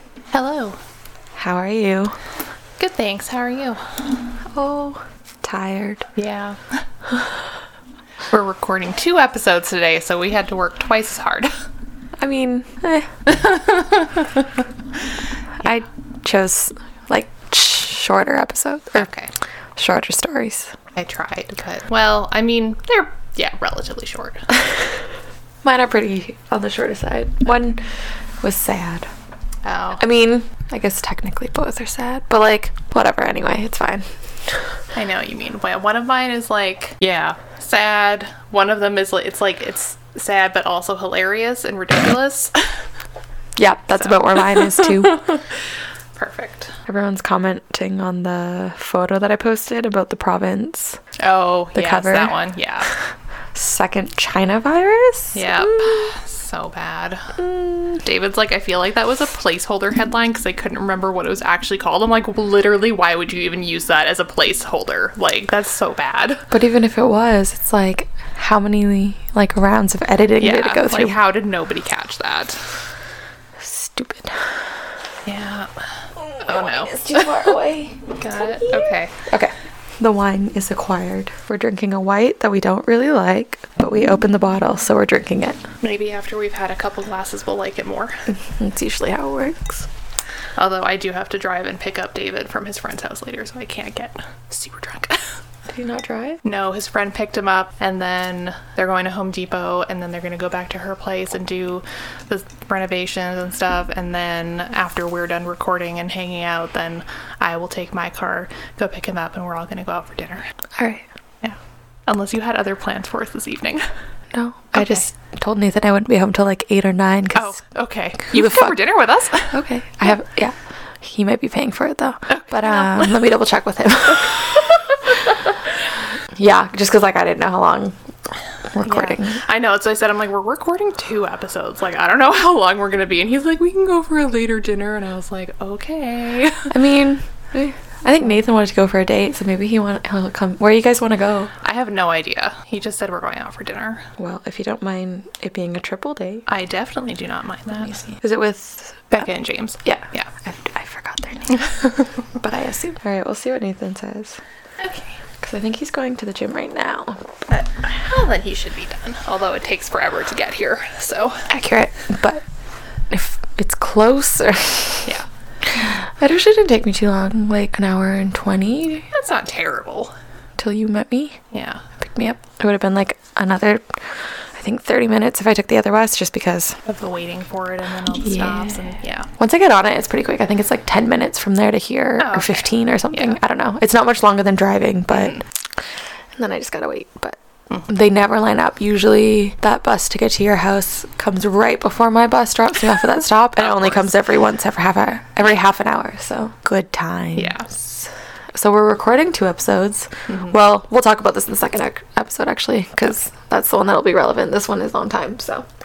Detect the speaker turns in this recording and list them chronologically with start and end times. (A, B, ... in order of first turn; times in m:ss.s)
0:00.3-0:00.8 A
0:01.4-0:02.2 B
0:02.8-0:03.8 A
0:04.5-0:06.1 B
0:06.2-0:06.8 A
0:08.3-0:11.5 A
0:12.2-0:13.2 B
0:13.3-0:14.4 A
0:15.6-0:19.1 B
0:19.0-0:19.3 A
0:19.8-0:20.7 B
0:21.0-0:24.5 A
0:25.6-0:27.8 B
0:28.4-0:29.1 B
0:29.6-0:30.0 A
0:30.0-0:34.1 B
0:34.9-0:42.6 A
0:43.6-0:45.4 B
0:44.0-0:45.4 A
0:46.2-0:46.7 A
0:46.9-0:51.0 B
0:51.2-0:52.9 A
0:51.8-0:52.4 B
0:53.6-0:56.1 B
0:55.4-0:57.4 A
0:57.4-0:58.0 B
0:58.0-1:06.4 A
1:06.5-1:11.2 B
1:10.4-1:12.7 A
1:13.6-1:14.6 B
1:15.3-1:15.7 A
1:16.3-1:25.6 B
1:16.4-1:17.6 A
1:18.2-1:19.1 A
1:25.8-1:28.2 A
1:28.3-1:29.9 B
1:30.6-1:35.3 A
1:35.7-1:36.4 B
1:36.4-1:50.5 A
1:50.8-1:51.1 B
1:51.4-1:53.8 A
1:54.3-1:57.6 B
1:54.7-1:55.0 A
1:57.4-1:59.6 A
1:58.3-1:58.8 B
1:59.5-2:04.9 B
2:02.3-2:03.2 A
2:06.3-2:08.0 B
2:08.7-2:09.4 B
2:08.8-2:16.7 A
2:16.7-2:21.5 B
2:21.6-2:24.1 A
2:24.2-2:26.5 B
2:26.5-2:28.2 A
2:28.2-2:29.1 B
2:29.1-2:30.3 A
2:29.8-2:34.4 B
2:34.8-2:35.2 A
2:35.4-2:37.4 B
2:37.5-2:41.5 A
2:41.5-2:42.4 B
2:43.1-2:45.1 B
2:45.7-2:49.1 B
2:49.1-2:50.1 A
2:50.6-2:51.4 B
2:51.5-2:51.8 A
2:52.0-2:54.0 B
2:54.6-2:56.8 B
2:56.8-2:59.3 A
2:58.2-2:58.7 B
2:59.4-3:05.5 B
3:02.2-3:03.4 A
3:05.1-3:05.4 A
3:06.4-3:25.7 B
3:13.6-3:14.1 A
3:17.4-3:17.7 A
3:20.3-3:20.5 A